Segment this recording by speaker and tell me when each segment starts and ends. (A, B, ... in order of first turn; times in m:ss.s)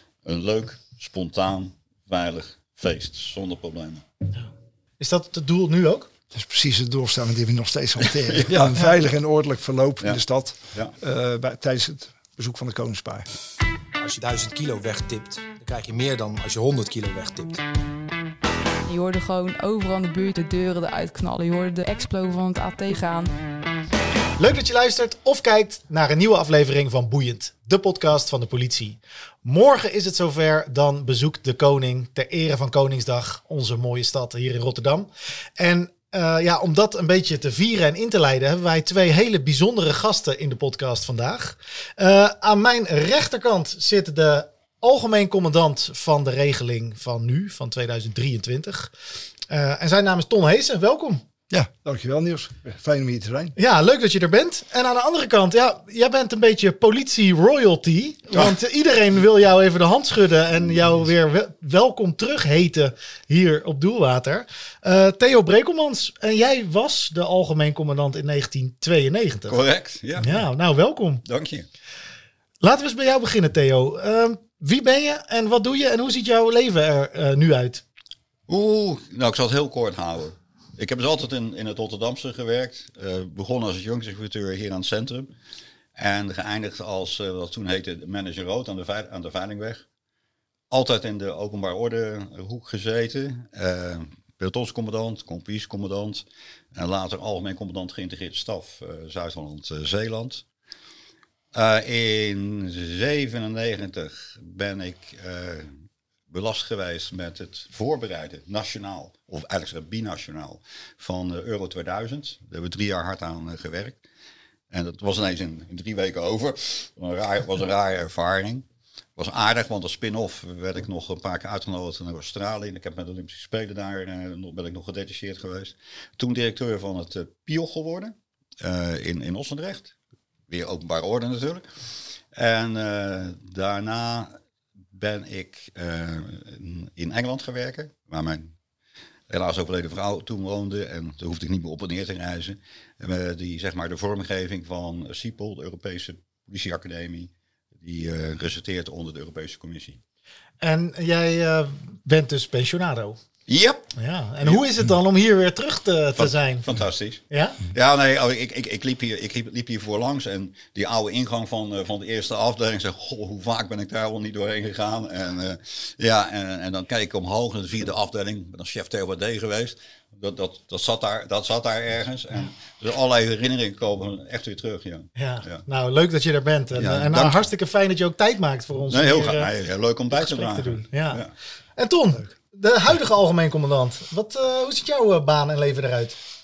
0:00.2-0:04.0 A
0:04.3-0:06.1 B
0:06.3-0:13.3 C
0:08.1-0:08.5 A
0:14.0-0:17.6 D
0:18.8-0:23.3 E
0:24.4-0:48.9 B
0:49.5-0:51.2 B
0:51.5-0:53.6 C
0:53.6-1:09.6 B
1:09.5-1:10.4 A
1:10.2-1:11.2 B
1:11.2-1:11.7 A
1:12.6-1:17.8 B
1:18.5-1:25.3 A
1:26.0-1:29.8 A
1:30.7-1:40.4 A
1:41.5-1:45.7 A
1:46.3-1:54.0 A
1:54.7-1:58.6 A
1:59.2-2:09.9 A
2:10.5-2:11.7 A
2:12.3-2:14.3 A
2:14.9-2:18.5 A
2:19.3-2:30.0 A
2:30.6-2:33.2 B
2:33.5-2:33.9 A
2:34.0-2:36.7 B
2:36.2-2:55.6 A
2:37.3-2:37.6 B
2:55.2-2:59.5 B
2:56.7-2:57.4 A
2:58.9-3:01.3 A
3:00.1-3:06.2 B